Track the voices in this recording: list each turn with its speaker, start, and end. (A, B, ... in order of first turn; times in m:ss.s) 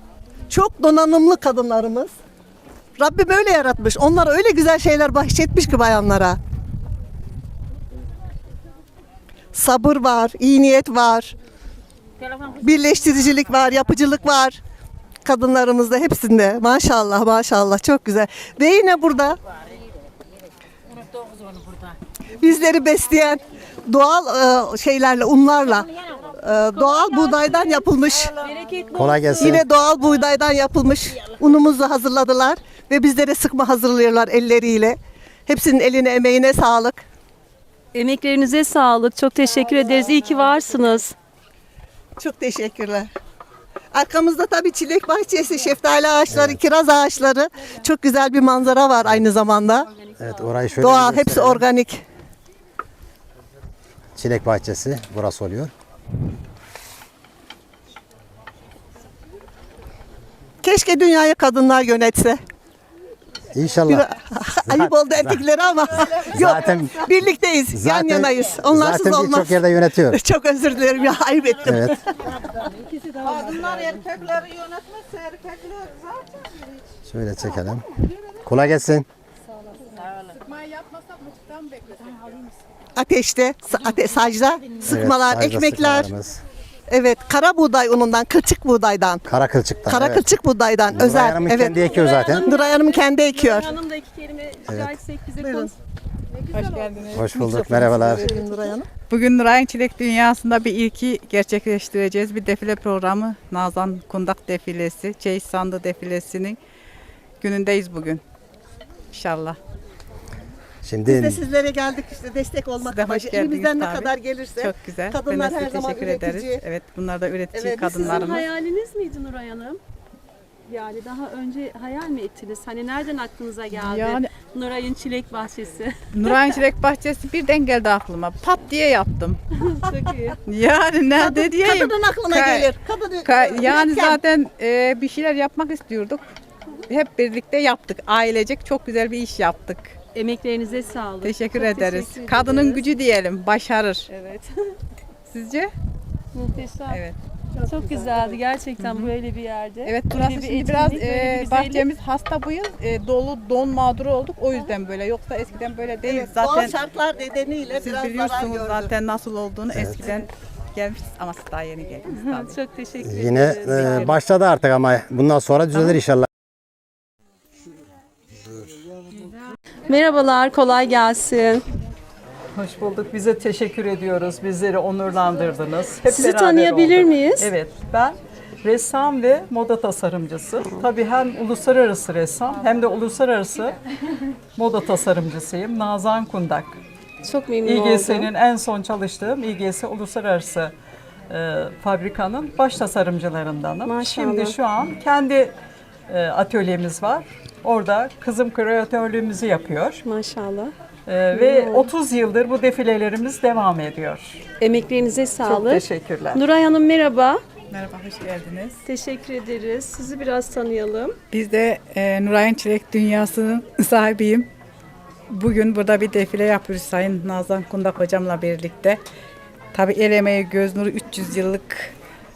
0:00.5-0:02.1 A
0:03.0-0:06.4 A
0:09.5-0:11.4 A
0:12.6-0:14.6 A
0:15.2-0:19.4 A
0:22.4-0:28.4 A
0:28.4-0:29.6 B
0:28.9-0:29.6 C
0:29.4-0:37.0 A
0:37.9-0:41.1 B
0:42.2-0:43.1 A
0:43.9-0:49.9 A
0:46.3-0:46.6 C
0:50.2-0:51.6 C
0:50.8-0:52.0 A
0:54.2-0:55.7 C
1:00.6-1:02.4 A
1:03.5-1:04.0 C
1:03.9-1:12.6 A
1:04.6-1:05.4 C
1:06.2-1:07.1 C
1:07.7-1:10.2 C
1:11.7-1:11.9 C
1:13.2-1:14.1 B
1:17.1-1:17.9 C
1:18.4-1:19.1 C
1:20.3-1:22.4 D
1:23.0-1:26.1 A
1:24.8-1:26.4 C
1:26.9-1:29.2 A
1:29.3-1:30.3 C
1:29.8-1:33.7 A
1:30.9-1:32.5 C
1:31.8-1:35.8 B
1:34.7-1:35.0 C
1:35.4-1:35.7 A
1:36.5-1:46.6 D
1:37.1-1:38.3 C
1:37.6-1:38.9 A
1:47.4-1:48.2 D
1:49.1-1:49.6 D
1:50.8-1:51.4 C
1:51.1-1:56.6 A
1:52.8-1:58.5 D
1:57.5-1:58.4 A
1:58.0-1:59.8 B
2:00.7-2:06.4 B
2:03.7-2:04.3 D
2:06.1-2:09.4 D
2:09.6-2:10.4 B
2:10.5-2:16.2 D
2:11.2-2:14.2 A
2:16.9-2:20.0 D
2:20.1-2:22.8 B
2:21.2-2:24.1 D
2:24.1-2:24.8 B
2:25.3-2:25.7 D
2:26.4-2:27.0 B
2:26.9-2:27.2 D
2:27.6-2:31.9 B
2:28.8-2:29.1 D
2:29.8-2:36.8 D
2:36.0-2:38.9 A
2:37.8-2:42.6 D
2:39.7-2:40.0 C
2:42.1-2:44.2 B
2:43.0-2:46.3 C
2:43.8-2:44.2 D
2:49.9-2:51.6 B
2:52.6-3:03.8 E
2:56.1-2:57.5 B
3:00.6-3:00.9 B
3:04.6-3:06.8 E
3:07.2-3:08.3 B
3:07.6-3:10.7 E
3:11.3-3:15.6 E
3:13.8-3:14.6 B
3:16.1-3:20.0 E
3:20.0-3:20.7 B
3:21.1-3:24.4 E
3:21.3-3:21.9 B
3:24.6-3:27.4 B
3:25.4-3:26.4 E
3:27.7-3:28.8 D
3:28.8-3:31.2 B
3:31.3-3:34.5 D
3:35.3-3:39.0 D
3:39.7-3:41.9 D